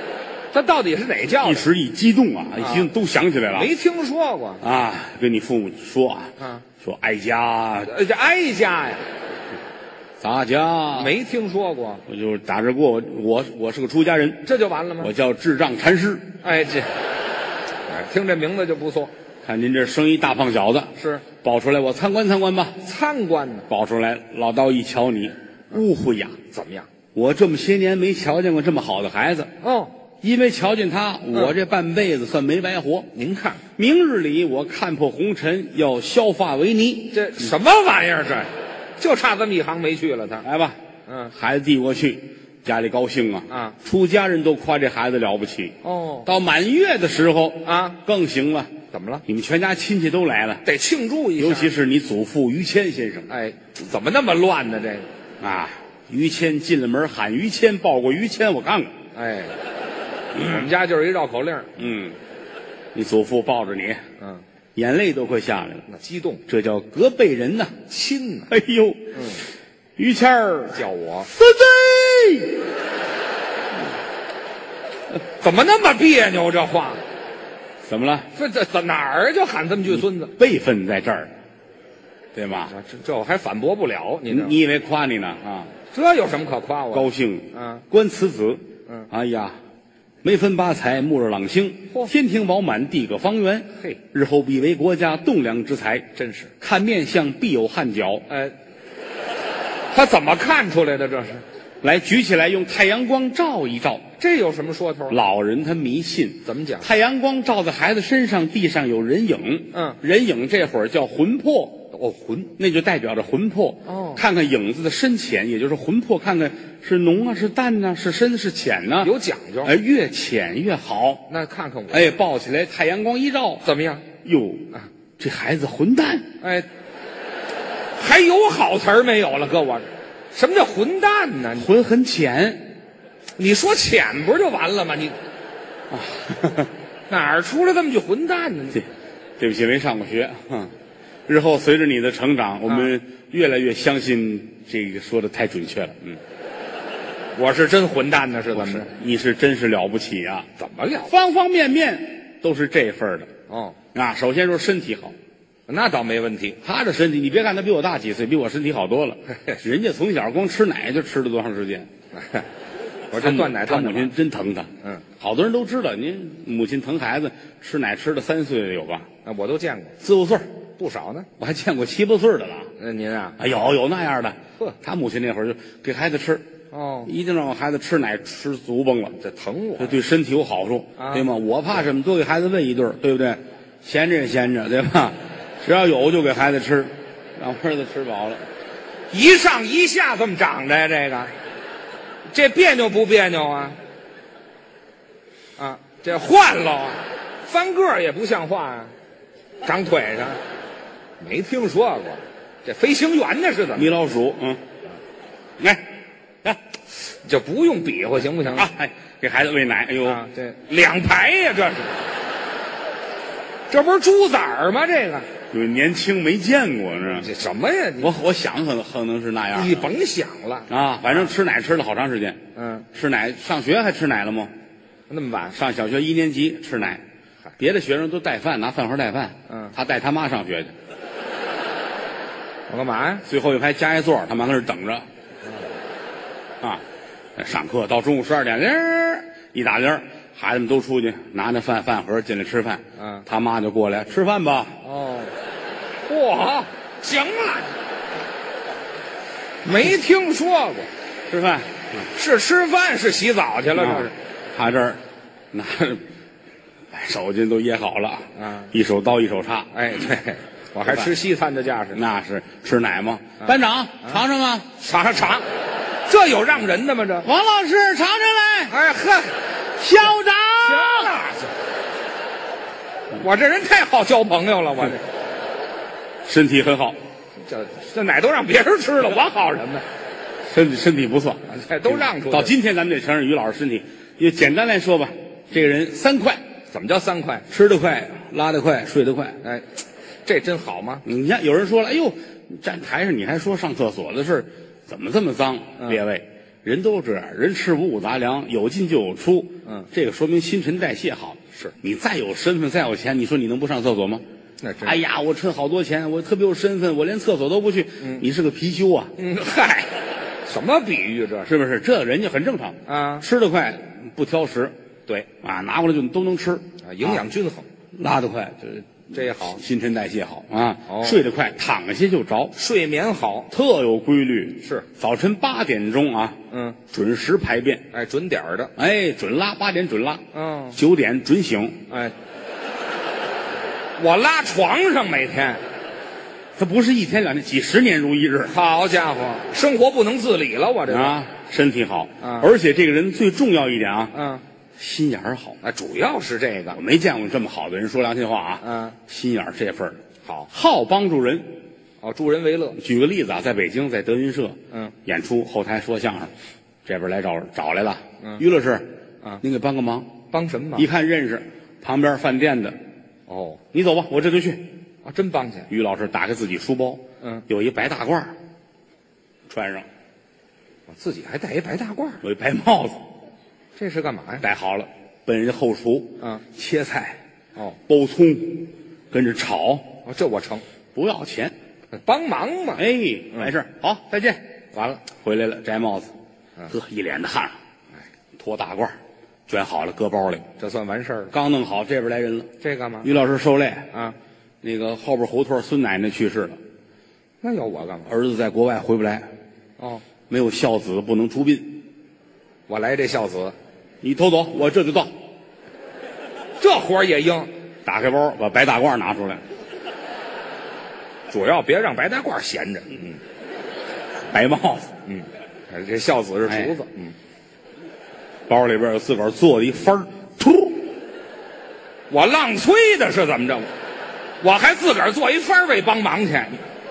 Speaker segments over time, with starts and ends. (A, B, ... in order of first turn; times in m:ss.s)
0:00.5-0:01.6 A
0:01.4-0:03.7 B
0:02.6-0:02.9 A
0:03.5-0:04.6 A
0:04.6-0:07.9 B
0:06.4-0:06.6 A
0:07.8-0:09.1 A
0:10.2-0:11.1 B
0:10.9-0:12.0 A
0:12.1-0:14.5 B
0:14.4-0:15.1 A
0:15.0-0:16.3 B
0:16.4-0:16.9 A
0:17.9-0:19.1 A
0:19.4-0:22.8 B
0:21.0-0:21.2 A
0:22.8-0:23.7 A
0:23.7-0:26.4 B
0:26.5-0:26.9 A
0:27.1-0:29.5 B
0:29.6-0:29.9 A
0:30.2-0:33.1 B
0:33.1-0:33.6 A
0:33.8-0:37.2 B
0:37.1-0:40.4 A
0:40.4-0:40.8 B
0:41.1-0:41.3 A
0:41.3-0:48.7 B
0:43.5-0:43.8 A
0:45.8-0:46.3 A
0:47.6-0:48.0 A
0:48.9-0:49.2 A
0:49.2-0:50.6 B
0:50.6-0:51.7 A
0:51.4-0:53.3 B
0:53.3-0:55.1 A
0:55.4-0:58.9 B
0:59.1-0:59.6 A
1:00.3-1:01.8 A
1:01.8-1:02.2 B
1:02.9-1:04.0 B
1:04.7-1:05.8 B
1:05.9-1:06.4 A
1:06.5-1:07.8 B
1:07.9-1:08.5 A
1:08.5-1:09.4 B
1:09.1-1:09.4 A
1:10.0-1:12.6 B
1:10.7-1:11.3 A
1:15.4-1:17.0 A
1:17.8-1:18.3 B
1:18.3-1:20.3 A
1:19.9-1:21.3 B
1:22.3-1:22.7 B
1:22.7-1:24.6 A
1:24.3-1:25.7 B
1:25.9-1:27.8 A
1:26.9-1:29.6 B
1:30.2-1:38.2 B
1:36.2-1:36.5 A
1:38.3-1:38.5 A
1:39.9-1:41.4 A
1:41.8-1:44.0 B
1:44.2-1:45.2 A
1:45.1-1:51.9 B
1:46.4-1:46.9 A
1:49.7-1:50.0 A
1:51.9-1:52.5 A
1:52.6-1:59.1 B
1:53.8-1:54.2 A
1:59.0-1:59.7 A
1:59.6-2:01.2 B
2:01.3-2:02.1 A
2:01.9-2:03.6 B
2:03.6-2:04.0 A
2:04.2-2:06.3 B
2:06.4-2:06.7 A
2:08.0-2:11.7 A
2:11.6-2:12.7 B
2:13.4-2:15.2 A
2:15.9-2:16.7 B
2:17.1-2:18.8 A
2:19.4-2:20.7 B
2:21.3-2:26.2 B
2:22.7-2:22.9 A
2:27.3-2:28.9 A
2:28.5-2:30.5 B
2:30.6-2:31.1 A
2:31.1-2:33.3 B
2:33.5-2:33.8 A
2:33.9-2:35.2 B
2:35.7-2:36.6 A
2:36.6-2:41.9 B
2:39.3-2:39.6 A
2:42.1-2:42.4 A
2:43.1-2:44.1 A
2:43.1-2:49.1 B
2:49.2-2:50.0 A
2:50.0-2:50.5 B
2:50.8-2:51.3 A
2:51.4-2:52.7 B
2:52.8-2:53.4 A
2:53.4-2:56.4 B
2:56.7-2:57.1 A
2:57.0-2:59.1 B
2:59.2-3:00.0 A
2:59.8-3:08.5 B
3:01.0-3:01.3 A
3:09.1-3:11.3 A
3:12.3-3:13.8 A
3:15.6-3:18.9 A
3:19.6-3:20.4 A
3:21.2-3:23.9 A
3:23.7-3:24.6 B
3:25.6-3:25.9 B
3:27.1-3:28.7 A
3:28.4-3:30.2 B
3:30.0-3:32.0 A
3:33.7-3:35.3 A
3:35.5-3:37.3 B
3:37.1-3:38.2 A
3:38.0-3:39.9 B
3:39.5-3:41.3 A
3:40.7-3:42.4 B
3:42.5-3:42.8 A
3:42.9-3:44.5 B
3:45.1-3:45.6 A
3:45.5-3:47.0 B
3:47.6-3:50.7 B
3:49.5-3:49.7 A
3:52.7-3:53.2 A
3:53.2-3:55.0 B
3:57.4-4:04.8 B
4:03.0-4:03.2 A
4:04.8-4:05.3 A
4:06.0-4:07.7 A
4:09.6-4:10.9 A
4:11.3-4:11.8 B
4:12.1-4:14.1 A
4:13.8-4:15.0 B
4:15.5-4:16.0 B
4:16.9-4:19.7 B
4:18.4-4:18.7 A
4:19.7-4:22.0 A
4:21.9-4:24.7 B
4:23.4-4:24.2 A
4:24.8-4:25.4 A
4:26.1-4:27.3 A
4:27.2-4:28.7 B
4:28.7-4:29.4 A
4:29.8-4:31.1 B
4:30.6-4:31.5 A
4:33.2-4:35.0 A
4:36.2-4:37.0 B
4:37.4-4:39.8 A
4:40.5-4:46.4 B
4:41.5-4:42.5 A
4:46.7-4:47.4 A
4:47.5-4:49.4 B
4:50.2-4:51.0 A
4:51.0-5:04.2 B
5:04.6-5:05.0 A
5:04.8-5:09.1 B
5:09.2-5:09.9 A
5:10.4-5:11.5 A
5:11.4-5:14.7 B
5:12.8-5:13.3 A
5:15.4-5:17.2 B
5:16.8-5:17.6 A
5:17.9-5:22.5 B
5:19.1-5:19.6 A
5:20.9-5:21.2 A
5:22.6-5:23.5 A
5:23.5-5:27.8 B
5:26.5-5:26.8 A
5:27.9-5:28.7 A
5:28.8-5:31.8 B
5:30.3-5:30.8 A
5:31.9-5:32.1 A
5:34.0-5:35.6 A
5:36.6-5:38.5 B
5:38.4-5:41.2 A
5:40.9-5:44.1 B
5:42.2-5:42.5 A
5:44.1-5:44.4 A
5:44.8-5:45.6 B
5:45.6-5:46.8 A
5:46.7-5:51.5 B
5:48.6-5:49.0 A
5:52.0-5:52.8 A
5:52.8-5:56.3 B
5:56.8-5:58.9 B
5:59.4-6:00.1 B
6:00.3-6:00.9 A
6:00.8-6:02.8 B
6:03.3-6:03.6 A
6:03.7-6:04.6 B
6:05.0-6:05.7 A
6:05.7-6:08.3 B
6:09.5-6:09.9 B
6:10.9-6:12.2 A
6:12.2-6:13.1 B
6:13.8-6:14.4 A
6:14.4-6:17.2 B
6:17.9-6:19.9 B
6:20.0-6:20.6 A
6:20.9-6:21.5 B
6:22.0-6:23.5 A
6:22.8-6:24.4 B
6:24.7-6:25.0 A
6:25.2-6:26.1 B
6:26.7-6:27.6 B
6:28.4-6:29.0 B
6:29.5-6:30.5 B
6:30.6-6:31.3 A
6:31.3-6:32.5 B
6:32.6-6:33.1 A
6:33.0-6:33.9 B
6:34.6-6:36.6 B
6:37.4-6:38.1 A
6:38.1-6:39.3 B
6:40.3-6:41.8 B
6:42.7-6:43.5 A
6:44.0-6:45.1 B
6:46.6-6:47.5 A
6:47.8-6:49.4 B
6:51.3-6:53.2 A
6:54.3-6:54.9 B
6:55.1-6:57.1 A
6:58.5-7:00.9 B
7:02.1-7:03.7 A
7:04.4-7:06.6 A